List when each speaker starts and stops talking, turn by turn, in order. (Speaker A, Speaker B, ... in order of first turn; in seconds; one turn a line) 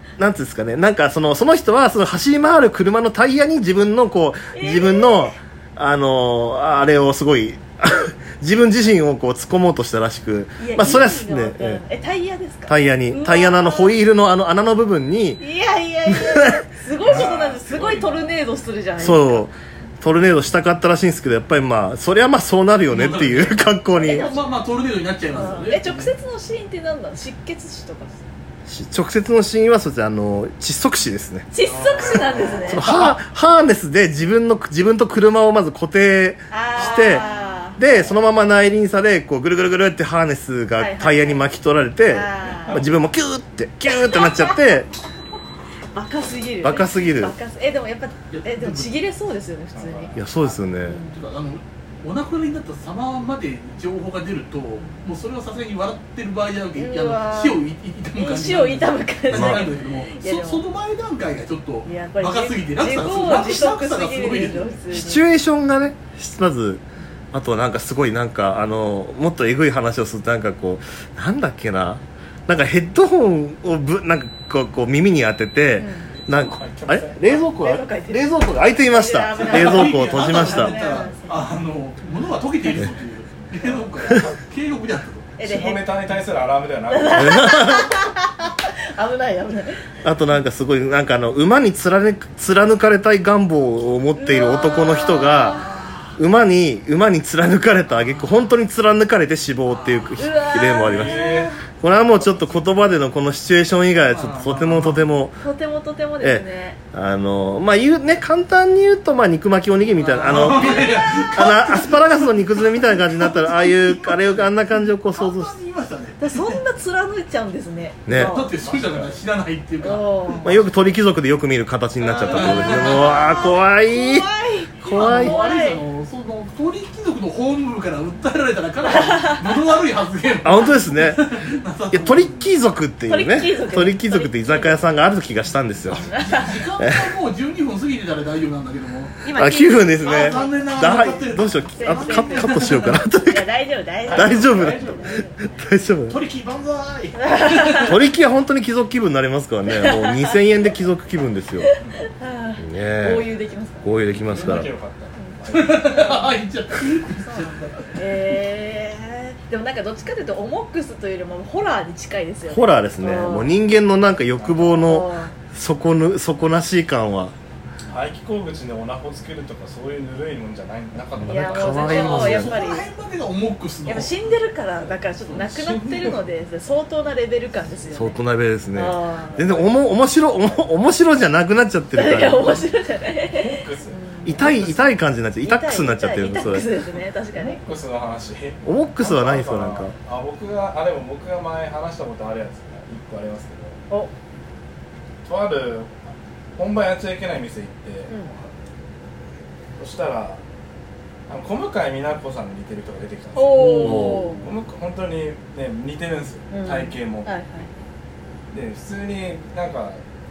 Speaker A: 0.2-11.8
Speaker B: 4.5-5.3
Speaker B: 10.6-14.0
Speaker A: 12.7-15.4
Speaker B: 15.4-19.4
Speaker A: 16.1-17.3
Speaker C: 17.0-18.3
Speaker A: 19.0-24.3
Speaker D: 22.9-26.1
Speaker B: 23.9-24.5
Speaker B: 25.3-28.2
Speaker A: 28.7-31.5
Speaker B: 31.5-32.9
Speaker C: 31.6-32.7
Speaker A: 32.7-44.9
Speaker D: 32.8-33.1
Speaker B: 36.5-37.8
Speaker B: 40.8-41.5
Speaker B: 42.1-42.8
Speaker C: 42.5-42.9
Speaker B: 43.9-44.8
Speaker B: 45.9-50.2
Speaker A: 46.6-47.4
Speaker D: 48.3-49.0
Speaker C: 49.7-50.6
Speaker A: 50.1-51.0
Speaker B: 50.8-51.2
Speaker D: 51.1-64.8
Speaker B: 56.8-57.6
Speaker B: 58.1-60.6
Speaker A: 59.3-59.6
Speaker B: 61.9-65.2
Speaker A: 64.9-80.8
Speaker B: 75.8-76.1
Speaker C: 76.2-77.4
Speaker B: 77.3-81.4
Speaker D: 79.4-85.3
Speaker B: 85.4-85.9
Speaker C: 85.4-87.5
Speaker B: 86.9-89.8
Speaker A: 87.1-87.9
Speaker A: 90.0-95.6
Speaker B: 94.2-95.7
Speaker D: 95.3-96.2
Speaker A: 96.2-101.3
Speaker D: 98.0-98.5
Speaker D: 99.7-100.2
Speaker B: 100.2-101.6
Speaker C: 100.8-101.5
Speaker A: 101.8-105.4
Speaker C: 102.2-102.5
Speaker D: 104.0-105.1
Speaker B: 105.4-106.8
Speaker A: 106.2-115.5
Speaker D: 110.0-116.6
Speaker B: 116.2-118.5
Speaker A: 118.1-118.4
Speaker D: 118.1-120.1
Speaker C: 118.5-119.2
Speaker B: 119.8-120.6
Speaker A: 120.4-124.3
Speaker B: 122.0-125.8
Speaker D: 122.3-123.3
Speaker A: 124.8-125.4
Speaker D: 124.9-132.5
Speaker A: 130.4-131.2
Speaker A: 131.9-136.1
Speaker B: 133.1-134.8
Speaker B: 136.0-136.6
Speaker D: 136.1-139.2
Speaker B: 139.2-141.1
Speaker A: 139.3-143.4
Speaker D: 140.0-143.0
Speaker B: 141.8-145.3
Speaker C: 144.1-144.7
Speaker A: 144.1-146.2
Speaker D: 144.1-145.2
Speaker D: 146.1-148.0
Speaker A: 147.8-151.7
Speaker B: 149.7-150.1
Speaker B: 151.7-153.9
Speaker A: 152.6-153.3
Speaker A: 153.8-154.7
Speaker C: 154.2-156.1
Speaker B: 155.2-156.3
Speaker D: 155.5-158.0
Speaker B: 157.3-163.6
Speaker A: 162.5-167.3
Speaker C: 164.3-164.9
Speaker B: 164.8-165.3
Speaker C: 167.9-172.5
Speaker A: 171.2-172.6
Speaker B: 171.2-172.9
Speaker D: 171.8-174.3
Speaker B: 173.8-178.2
Speaker C: 175.3-176.1
Speaker A: 177.9-182.7
Speaker B: 178.7-179.4
Speaker C: 179.3-179.7
Speaker B: 181.9-184.5
Speaker C: 183.2-184.7
Speaker A: 184.2-186.7
Speaker B: 185.4-187.6
Speaker C: 187.3-193.8
Speaker A: 188.7-189.9
Speaker C: 195.2-195.9
Speaker C: 196.6-198.5
Speaker C: 199.8-200.4
Speaker C: 201.3-207.3
Speaker B: 203.3-204.5
Speaker A: 203.6-204.3
Speaker B: 206.5-207.7
Speaker C: 208.5-210.0